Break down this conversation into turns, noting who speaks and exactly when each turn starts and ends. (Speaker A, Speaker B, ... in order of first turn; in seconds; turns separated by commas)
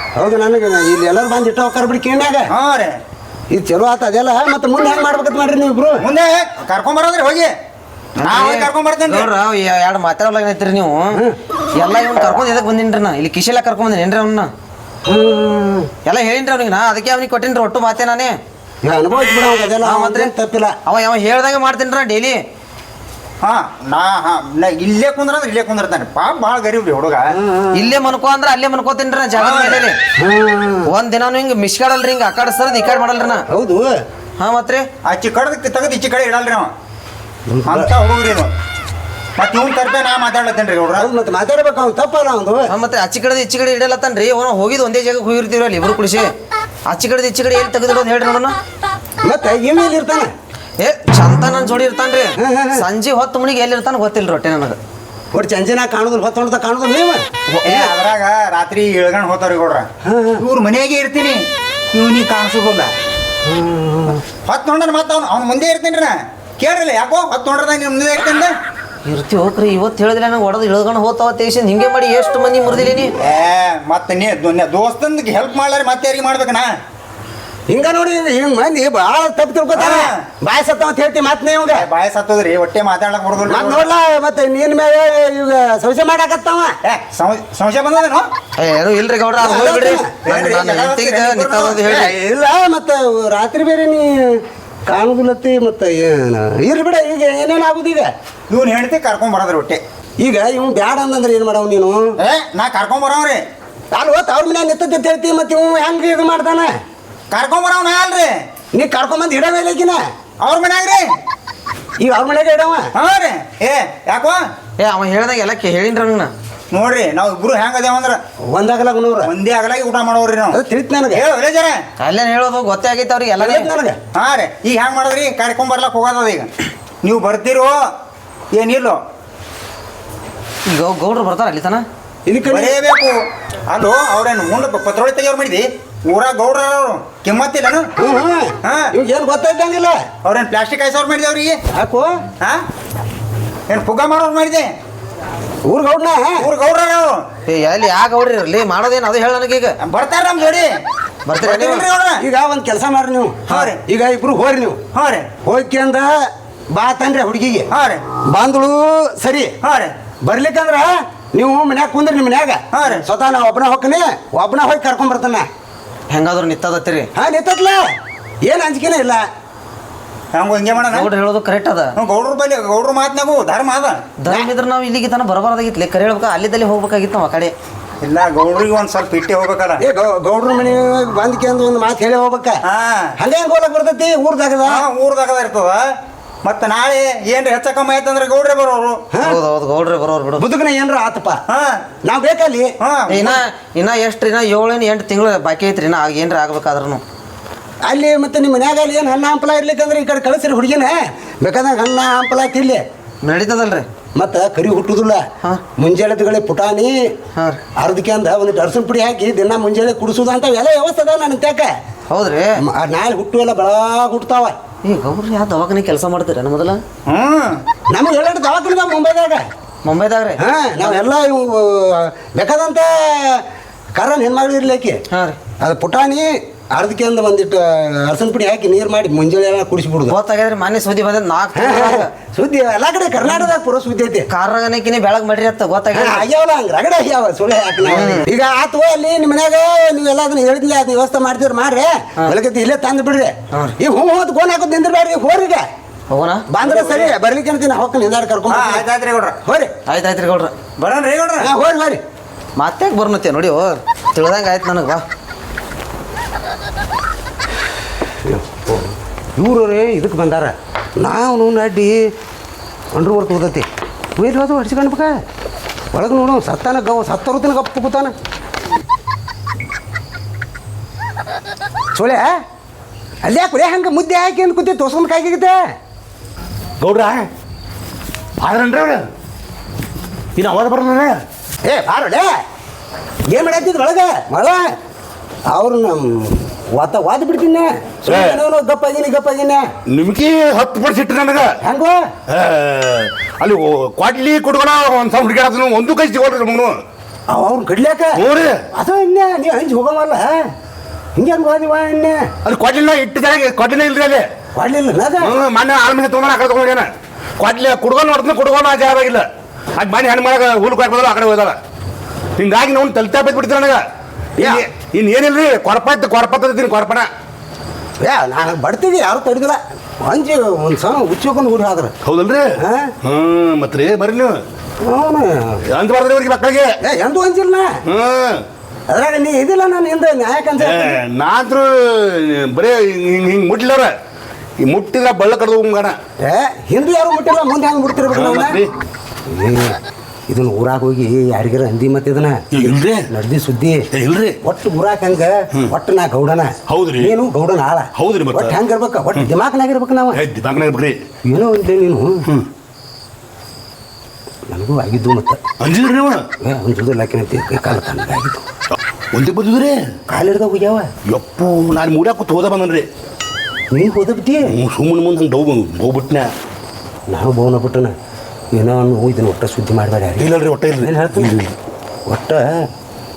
Speaker A: 0.1-2.5, Speaker B: 2.5-3.0, Speaker A: 3.5-6.1, Speaker B: 6.0-7.5, Speaker B: 8.2-9.3, Speaker C: 8.2-11.2, Speaker C: 11.8-14.5, Speaker A: 15.1-15.9, Speaker C: 16.0-18.4, Speaker A: 18.8-20.8, Speaker C: 19.8-20.3, Speaker C: 20.8-22.4, Speaker B: 23.4-27.4, Speaker A: 27.3-27.9, Speaker C: 27.7-30.0, Speaker B: 29.4-29.8, Speaker A: 30.2-30.9, Speaker C: 30.9-33.4, Speaker A: 33.5-34.0, Speaker C: 34.4-34.8, Speaker B: 35.0-36.7, Speaker A: 37.5-37.9, Speaker B: 37.7-38.5, Speaker B: 39.4-41.1, Speaker A: 40.9-42.7, Speaker C: 42.7-46.3, Speaker C: 46.9-48.5, Speaker A: 49.2-50.3, Speaker C: 50.8-54.8, Speaker A: 52.4-52.8, Speaker A: 55.3-57.2, Speaker C: 57.5-57.9, Speaker B: 57.6-59.9, Speaker A: 60.0-60.4, Speaker B: 60.4-62.9, Speaker A: 63.4-64.2, Speaker B: 64.5-68.5, Speaker C: 69.0-73.1, Speaker B: 73.2-76.7, Speaker A: 77.7-81.9, Speaker B: 79.7-80.2, Speaker B: 81.8-83.9, Speaker A: 83.5-86.7, Speaker B: 86.8-88.3, Speaker C: 88.5-92.1, Speaker A: 89.4-90.1, Speaker B: 90.2-91.8, Speaker A: 91.8-98.1, Speaker B: 98.5-99.8, Speaker A: 100.2-102.1, Speaker B: 102.2-103.4, Speaker A: 103.9-106.7, Speaker B: 107.3-108.3, Speaker A: 108.7-110.0, Speaker B: 110.4-111.0, Speaker A: 112.0-112.8, Speaker B: 112.9-114.4, Speaker C: 114.8-116.3, Speaker B: 116.7-118.2, Speaker A: 118.5-119.3, Speaker B: 119.2-120.6, Speaker A: 120.5-121.2, Speaker B: 121.1-121.8, Speaker C: 122.0-123.7, Speaker A: 123.4-124.0, Speaker B: 124.1-126.5, Speaker B: 127.0-127.8, Speaker B: 128.5-129.0, Speaker C: 130.7-131.8, Speaker A: 132.3-132.8, Speaker B: 132.5-133.2, Speaker B: 133.7-137.9, Speaker A: 138.0-139.9, Speaker B: 138.6-138.9, Speaker B: 140.2-141.6, Speaker A: 141.7-142.1, Speaker B: 143.7-144.7, Speaker A: 145.7-146.5, Speaker B: 146.4-147.2, Speaker C: 147.5-149.7, Speaker B: 149.8-150.7, Speaker C: 151.2-151.8, Speaker B: 151.4-152.2, Speaker A: 152.2-154.8, Speaker B: 153.5-153.8, Speaker B: 154.9-155.3, Speaker A: 155.4-156.1, Speaker A: 156.7-157.7, Speaker B: 157.7-158.0, Speaker A: 158.3-159.5, Speaker B: 159.6-159.9, Speaker A: 160.2-165.4, Speaker B: 162.7-163.0, Speaker C: 166.1-167.1, Speaker A: 167.1-167.8, Speaker A: 168.5-169.2, Speaker B: 170.3-171.1, Speaker C: 170.8-171.9, Speaker B: 171.9-174.0, Speaker C: 174.2-177.5, Speaker B: 178.0-179.8, Speaker A: 179.8-182.6, Speaker B: 182.7-183.1, Speaker A: 183.2-184.8, Speaker B: 184.7-185.8, Speaker B: 186.4-189.0, Speaker A: 189.1-189.4, Speaker C: 189.2-190.4, Speaker A: 190.4-191.4, Speaker B: 191.5-191.8, Speaker A: 192.0-192.7, Speaker B: 192.8-193.4, Speaker C: 193.1-197.0, Speaker A: 197.8-202.8, Speaker C: 203.2-203.8, Speaker A: 204.2-205.2, Speaker A: 205.8-206.9, Speaker A: 207.8-211.7, Speaker C: 212.1-212.5, Speaker A: 212.6-214.6, Speaker C: 214.8-216.8, Speaker B: 217.1-217.6, Speaker A: 217.9-219.4, Speaker C: 219.8-221.0, Speaker A: 220.4-223.4, Speaker A: 224.0-225.0, Speaker C: 225.1-225.4, Speaker A: 225.6-230.2, Speaker C: 230.1-232.1, Speaker A: 231.6-234.3, Speaker C: 234.3-236.3, Speaker A: 235.9-245.6, Speaker C: 237.8-238.2, Speaker C: 246.1-246.4, Speaker A: 246.5-248.8, Speaker B: 248.5-249.4, Speaker A: 249.4-249.7, Speaker C: 249.9-250.5, Speaker B: 250.8-251.5, Speaker A: 251.4-252.0, Speaker C: 252.6-255.0, Speaker A: 258.3-262.1, Speaker A: 262.9-263.6, Speaker A: 264.2-265.2, Speaker A: 265.9-268.1, Speaker A: 271.9-272.4, Speaker A: 273.2-275.6, Speaker D: 276.8-277.3, Speaker D: 278.4-279.0, Speaker D: 280.4-281.2, Speaker A: 281.6-282.3, Speaker A: 283.3-284.6, Speaker A: 285.5-289.6, Speaker D: 288.1-288.4, Speaker D: 289.9-291.5, Speaker A: 291.6-292.1, Speaker D: 292.3-296.8, Speaker A: 297.3-298.2, Speaker D: 298.1-298.6, Speaker A: 298.7-300.4, Speaker A: 301.1-302.3, Speaker D: 302.4-304.2, Speaker A: 304.5-305.4, Speaker D: 305.2-309.2, Speaker D: 309.8-311.6, Speaker D: 312.4-313.8, Speaker A: 314.4-314.6, Speaker D: 314.4-317.1, Speaker A: 318.0-321.9, Speaker D: 322.0-322.5, Speaker A: 322.6-322.9, Speaker D: 323.0-324.4, Speaker A: 324.8-325.6, Speaker D: 325.7-326.7, Speaker A: 326.8-327.8, Speaker D: 327.9-328.4, Speaker A: 328.9-331.0, Speaker D: 330.6-333.9, Speaker D: 334.6-336.0, Speaker A: 336.2-338.6, Speaker D: 338.1-338.7, Speaker A: 339.3-342.4, Speaker D: 342.5-343.1, Speaker A: 343.1-343.8, Speaker D: 343.9-344.4, Speaker A: 344.4-350.2, Speaker D: 346.7-347.1, Speaker D: 347.9-348.6, Speaker D: 350.1-351.1, Speaker A: 351.3-352.3, Speaker A: 354.5-355.4, Speaker D: 355.6-356.2, Speaker A: 356.4-358.4, Speaker D: 359.1-359.8, Speaker A: 360.1-360.9, Speaker D: 361.1-362.9, Speaker A: 363.7-364.5, Speaker D: 364.4-366.3, Speaker A: 367.1-367.9, Speaker A: 368.5-371.5, Speaker D: 370.2-371.5, Speaker A: 372.1-372.6